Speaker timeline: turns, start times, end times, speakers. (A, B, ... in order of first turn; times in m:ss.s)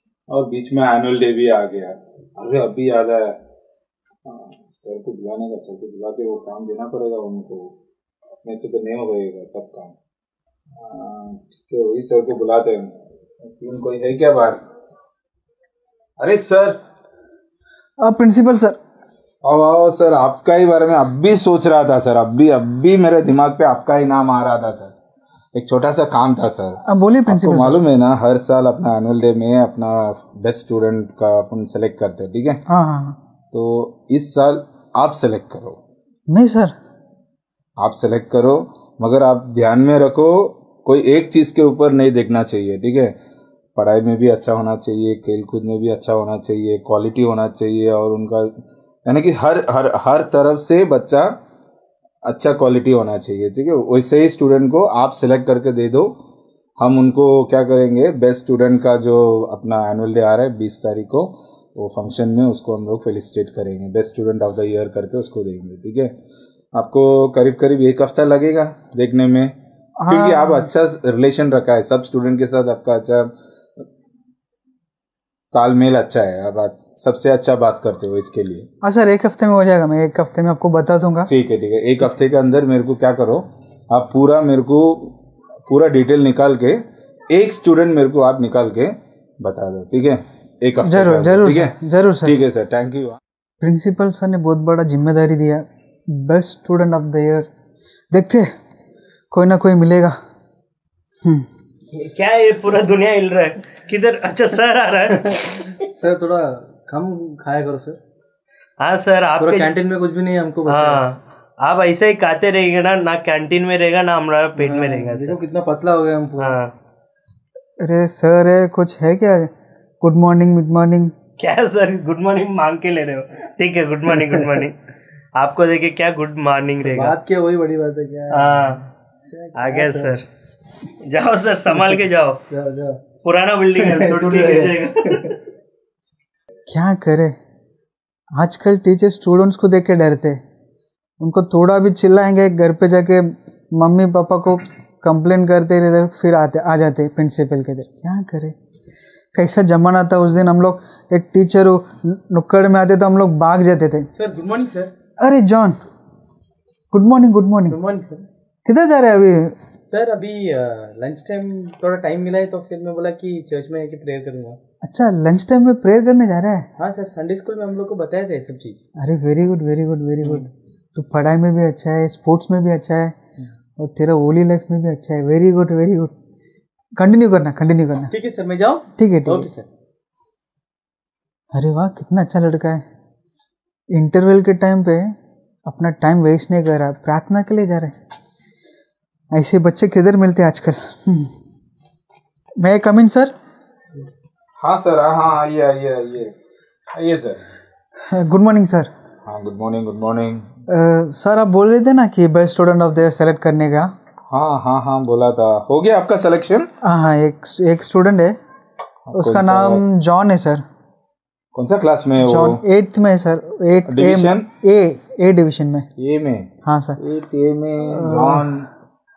0:00.3-0:03.4 A
0:04.2-0:07.7 A
0:08.4-0:09.9 A
0:10.8-0:14.6 A
0:16.2-0:16.8 A
0:18.0-0:18.8 B
0:19.4-0:24.9 A
0:25.5-0:32.6 A
0:26.8-0:27.8 B
0:32.7-0:33.2 B
0:33.5-0:35.8 A
0:36.3-0:36.7 B
0:37.8-0:43.1 A
0:43.8-0:48.5 A
0:49.0-0:51.3 A
0:52.3-0:56.1 A
0:56.8-1:06.1 A
1:06.8-1:09.5 A
1:10.0-1:10.7 B
1:10.1-1:13.3 A
1:15.5-1:18.7 A
1:18.8-1:21.3 B
1:21.3-1:25.1 A
1:25.7-1:33.2 A
1:30.8-1:32.3 B
1:33.6-1:37.5 B
1:38.1-1:38.5 B
1:39.3-1:40.1 B
1:41.9-1:45.6 C
1:45.2-1:48.0 D
1:48.8-1:49.7 C
1:49.4-1:51.0 D
1:50.7-1:55.4 C
1:54.6-1:56.6 D
1:56.4-1:56.7 C
1:57.8-1:59.5 B
2:00.0-2:01.1 B
2:01.4-2:04.7 C
2:05.4-2:07.2 C
2:06.8-2:10.1 D
2:08.3-2:08.8 C
2:09.6-2:10.2 C
2:11.0-2:12.4 C
2:11.7-2:13.0 D
2:13.2-2:15.3 C
2:13.8-2:15.3 D
2:16.7-2:17.3 B
2:18.4-2:20.4 B
2:21.2-2:28.5 B
2:29.3-2:34.1 B
2:34.1-2:34.9 D
2:35.2-2:35.8 B
2:36.9-2:37.8 B
2:37.7-2:38.3 D
2:38.6-2:39.5 B
2:39.8-2:44.6 D
2:44.8-2:46.6 B
2:46.8-2:48.8 D
2:49.0-2:53.2 B
2:53.8-2:56.1 B
2:57.0-2:58.1 B
2:58.1-2:59.7 D
2:59.0-2:59.5 B
3:01.5-3:02.8 B
3:03.9-3:05.1 B
3:05.7-3:07.9 B
3:09.3-3:11.3 B
3:12.6-3:13.3 B
3:14.6-3:16.3 A
3:17.0-3:17.4 A
3:18.1-3:18.9 B
3:19.2-3:20.5 A
3:20.7-3:23.9 B
3:24.3-3:26.7 A
3:26.8-3:28.4 B
3:29.1-3:29.8 A
3:29.2-3:30.6 B
3:31.5-3:32.6 A
3:32.2-3:35.9 B
3:33.8-3:34.4 A
3:36.0-3:38.7 A
3:36.6-3:37.0 B
3:37.9-3:38.4 B